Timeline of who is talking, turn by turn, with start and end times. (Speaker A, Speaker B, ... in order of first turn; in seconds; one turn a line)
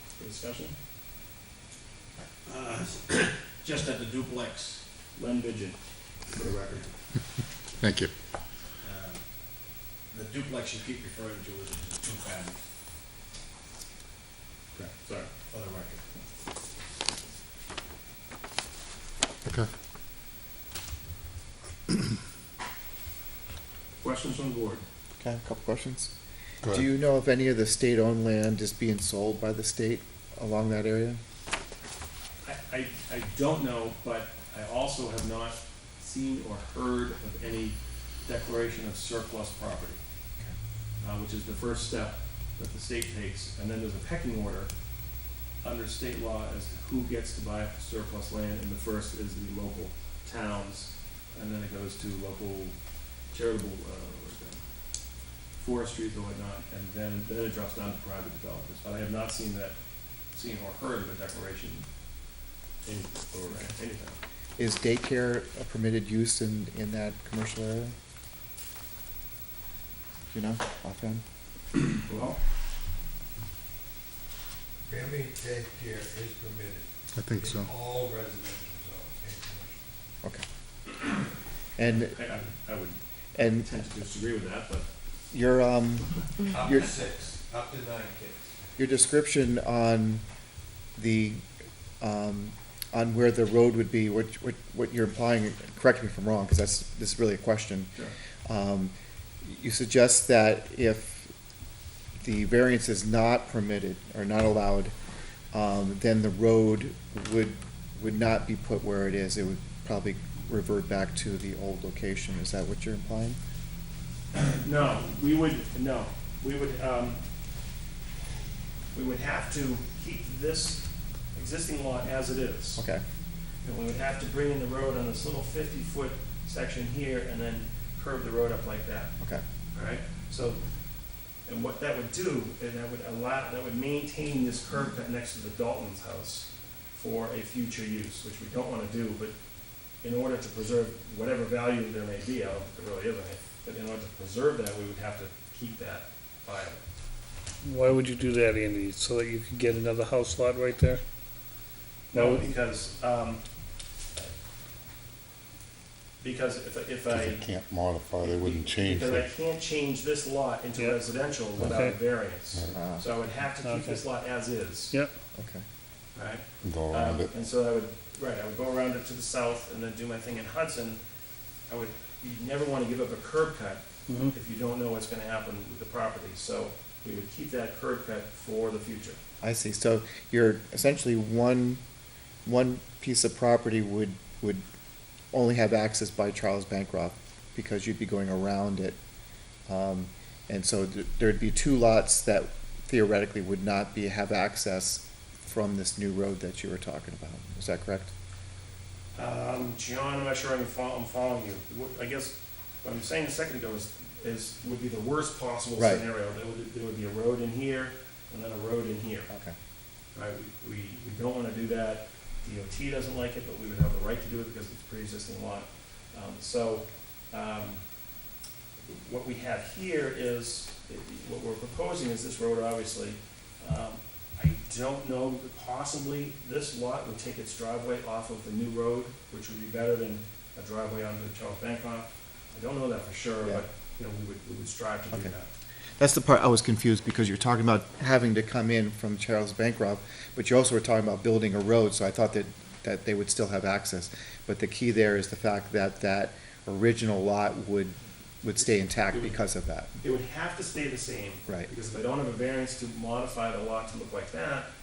Speaker A: 0.2-0.7
Speaker B: 2.5-4.8
Speaker A: 5.2-5.8
Speaker A: 6.3-6.8
Speaker C: 7.8-8.1
Speaker B: 8.8-9.2
Speaker B: 10.1-12.6
Speaker A: 14.7-15.3
Speaker B: 15.5-16.0
Speaker A: 24.0-24.8
Speaker D: 25.2-26.1
Speaker D: 26.6-31.2
Speaker A: 32.4-40.0
Speaker A: 41.0-44.7
Speaker A: 45.6-52.8
Speaker A: 53.3-54.6
Speaker A: 55.6-59.7
Speaker A: 60.3-61.9
Speaker A: 62.9-64.2
Speaker D: 64.6-67.9
Speaker D: 70.3-71.2
Speaker A: 71.9-72.4
Speaker E: 74.9-79.8
Speaker C: 77.1-77.7
Speaker D: 81.8-82.2
Speaker A: 81.8-84.9
Speaker D: 83.3-83.7
Speaker D: 85.3-86.9
Speaker E: 86.5-88.5
Speaker D: 88.8-90.2
Speaker D: 91.0-91.4
Speaker D: 92.0-97.9
Speaker D: 98.5-101.3
Speaker D: 102.2-104.9
Speaker D: 105.5-113.4
Speaker A: 114.6-117.2
Speaker A: 118.9-120.8
Speaker A: 121.3-122.8
Speaker D: 122.8-123.0
Speaker A: 123.6-129.1
Speaker A: 129.7-130.6
Speaker A: 131.4-139.3
Speaker A: 140.0-146.8
Speaker F: 147.6-151.0
Speaker F: 152.1-152.5
Speaker A: 152.1-153.4
Speaker A: 156.2-157.4
Speaker C: 157.1-159.2
Speaker A: 158.4-164.9
Speaker F: 161.6-161.9
Speaker D: 162.7-163.0
Speaker F: 163.6-164.0
Speaker D: 165.3-165.6
Speaker A: 166.1-171.0
Speaker C: 166.6-167.3
Speaker A: 171.7-179.2
Speaker F: 174.1-174.3
Speaker D: 179.4-181.8
Speaker D: 182.4-184.6
Speaker D: 185.3-189.0
Speaker D: 189.7-198.1
Speaker A: 199.2-209.3
Speaker D: 205.8-206.0
Speaker D: 209.3-209.5
Speaker A: 210.1-217.8
Speaker A: 218.8-235.5
Speaker D: 236.0-249.9
Speaker A: 249.1-249.4
Speaker A: 250.0-254.7